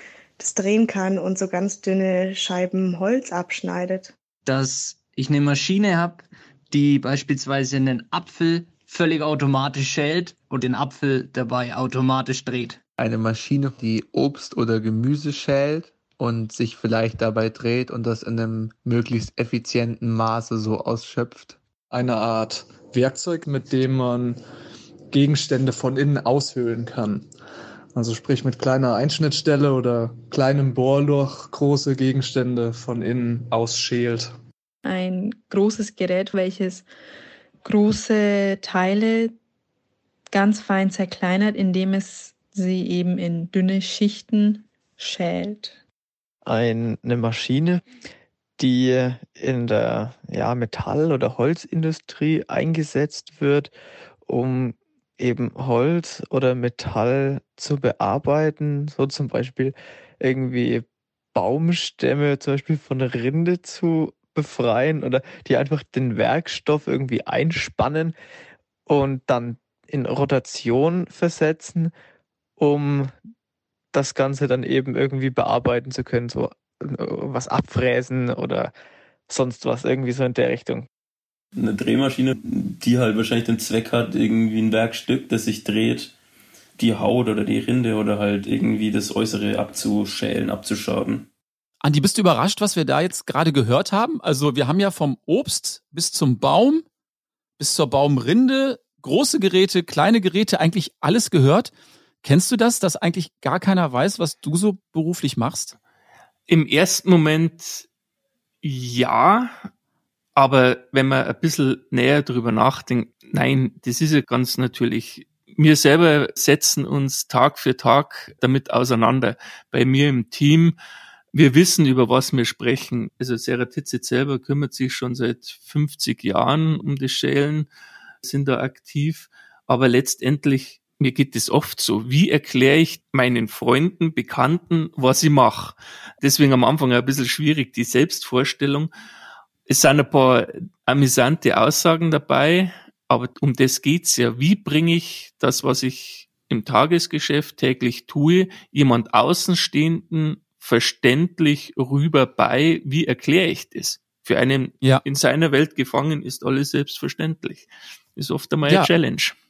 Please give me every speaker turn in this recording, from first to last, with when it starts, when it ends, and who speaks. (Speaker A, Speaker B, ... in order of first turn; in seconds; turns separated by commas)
Speaker A: 0.4-4.1, Speaker B: 4.5-12.8, Speaker C: 13.0-21.6, Speaker D: 21.9-24.4, Speaker D: 25.1-27.3, Speaker D: 27.9-34.3, Speaker E: 34.9-36.9, Speaker E: 37.6-39.3, Speaker E: 40.3-45.8, Speaker F: 46.5-47.8, Speaker F: 48.6-53.7, Speaker F: 54.3-68.2, Speaker F: 68.9-71.9, Speaker F: 72.6-73.1, Speaker F: 73.9-78.7, Speaker F: 79.3-80.9, Speaker G: 81.6-86.1, Speaker G: 86.8-91.3, Speaker H: 91.8-96.8, Speaker H: 97.6-101.7, Speaker H: 102.2-105.8, Speaker I: 106.5-107.9, Speaker I: 108.6-109.6, Speaker I: 110.4-120.8, Speaker I: 121.3-127.7, Speaker I: 128.2-138.9, Speaker I: 139.7-159.3